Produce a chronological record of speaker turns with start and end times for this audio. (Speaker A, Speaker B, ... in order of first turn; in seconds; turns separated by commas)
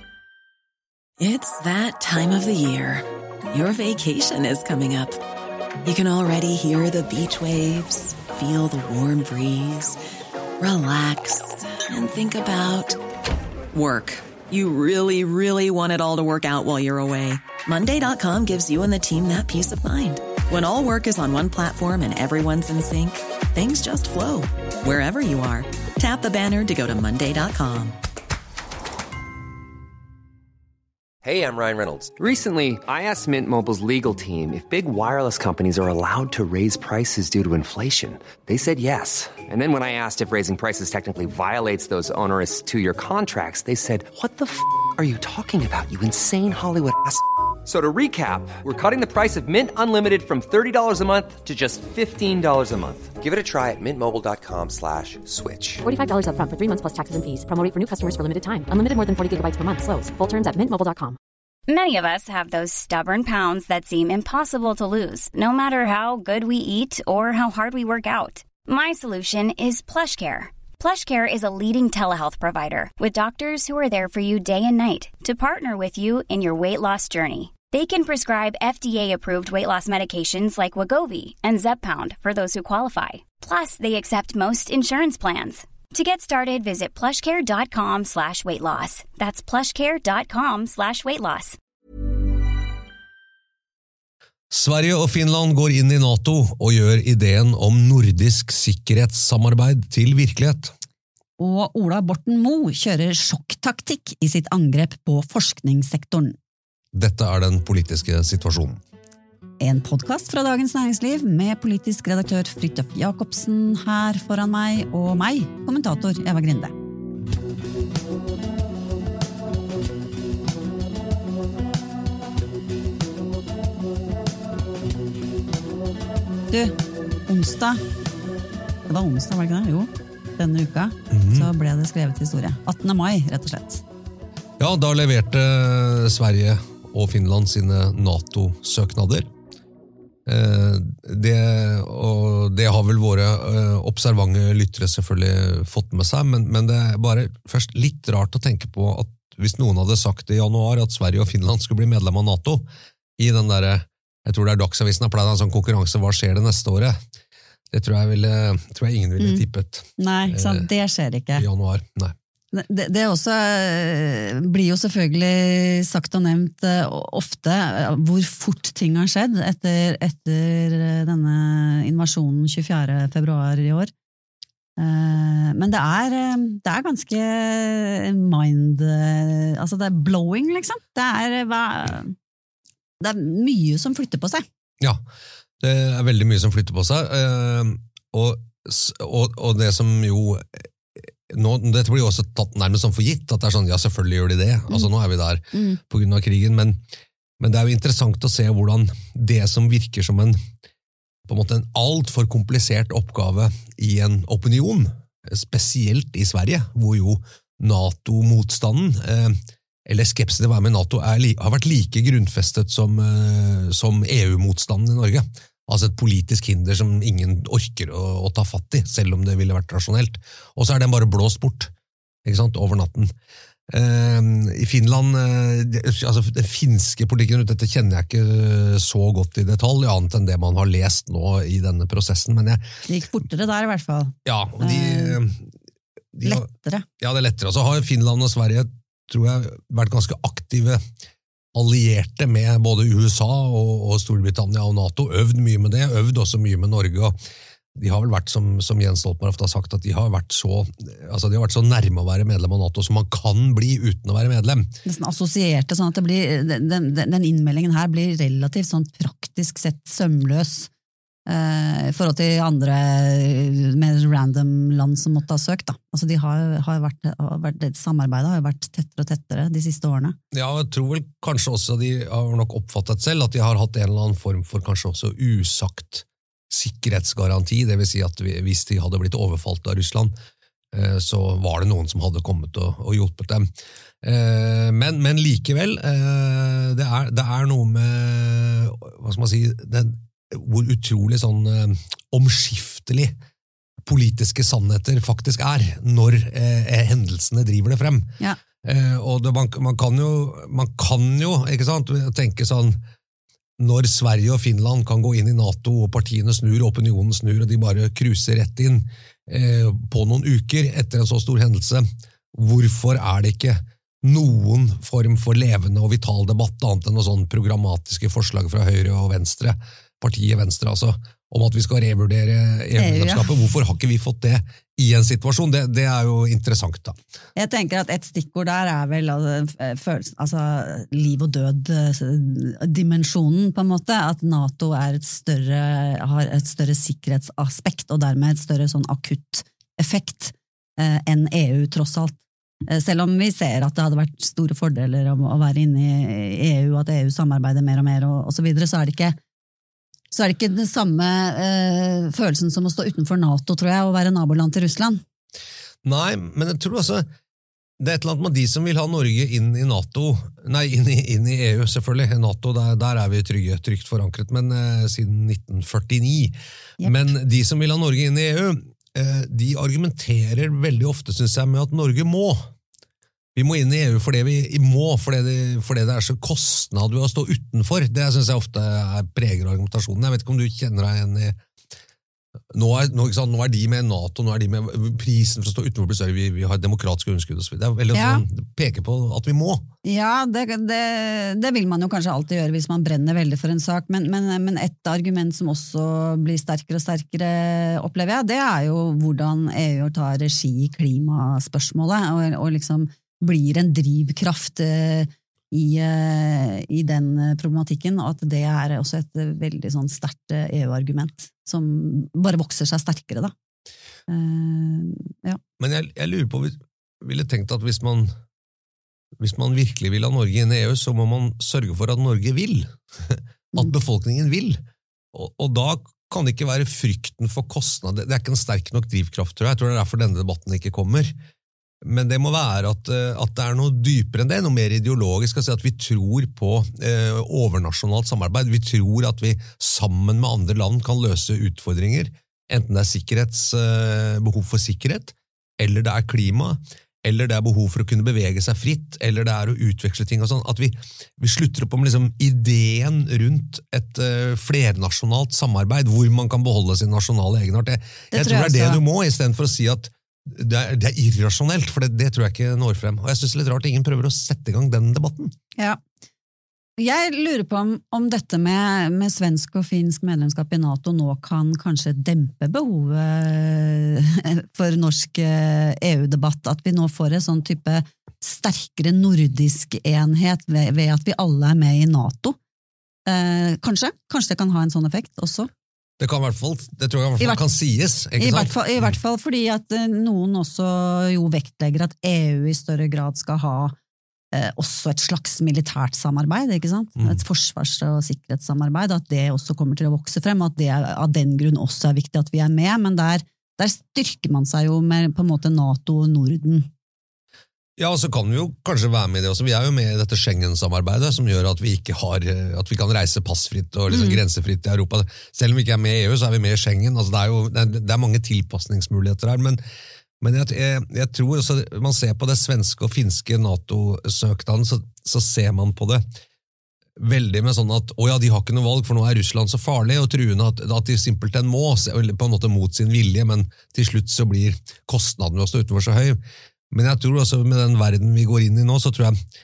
Speaker A: 1.2-5.2, Speaker A: 5.8-10.0, Speaker A: 10.6-13.0, Speaker A: 13.7-28.0, Speaker B: 31.2-55.8, Speaker C: 55.8-61.2, Speaker D: 61.7-91.6, Speaker E: 94.5-100.7, Speaker F: 101.4-106.4, Speaker E: 106.9-108.8, Speaker F: 109.6-116.8, Speaker F: 126.5-126.8, Speaker F: 127.3-127.8, Speaker F: 128.9-133.8, Speaker E: 131.1-131.5, Speaker E: 134.6-139.3, Speaker E: 140.2-152.7, Speaker E: 153.2-157.0, Speaker E: 157.7-160.7, Speaker F: 159.2-159.4, Speaker F: 160.0-161.5, Speaker E: 161.4-162.1, Speaker F: 162.5-173.9, Speaker F: 174.8-182.1, Speaker F: 183.0-184.5, Speaker E: 185.6-190.7, Speaker E: 191.3-196.8, Speaker F: 195.5-195.8, Speaker E: 197.4-200.4, Speaker E: 201.3-221.7, Speaker E: 222.2-223.1, Speaker E: 223.7-232.7, Speaker F: 232.9-235.2, Speaker E: 234.2-235.4, Speaker E: 236.1-236.5, Speaker F: 236.2-236.9, Speaker E: 237.0-240.8, Speaker E: 241.6-247.2, Speaker E: 247.8-254.7, Speaker F: 254.8-260.7, Speaker F: 261.3-270.2, Speaker E: 270.3-280.1, Speaker E: 280.7-283.5, Speaker E: 284.0-293.1, Speaker E: 293.9-302.8, Speaker E: 303.6-326.9, Speaker F: 322.8-323.4, Speaker F: 327.4-349.2, Speaker F: 350.1-355.0, Speaker E: 355.8-357.1, Speaker E: 357.8-372.5, Speaker F: 366.8-367.1, Speaker E: 373.3-381.4, Speaker E: 382.5-389.6, Speaker F: 387.9-388.2, Speaker F: 389.8-413.3, Speaker F: 414.1-415.4, Speaker E: 415.6-418.1, Speaker E: 419.2-424.6, Speaker E: 425.1-431.1, Speaker E: 431.8-465.3, Speaker F: 458.1-458.8, Speaker F: 466.8-482.4, Speaker F: 483.1-485.5, Speaker E: 486.0-489.0, Speaker F: 488.2-493.8, Speaker F: 494.3-506.7, Speaker E: 507.8-519.6, Speaker F: 513.9-514.2, Speaker E: 520.2-526.0, Speaker E: 527.0-536.2, Speaker E: 536.7-539.1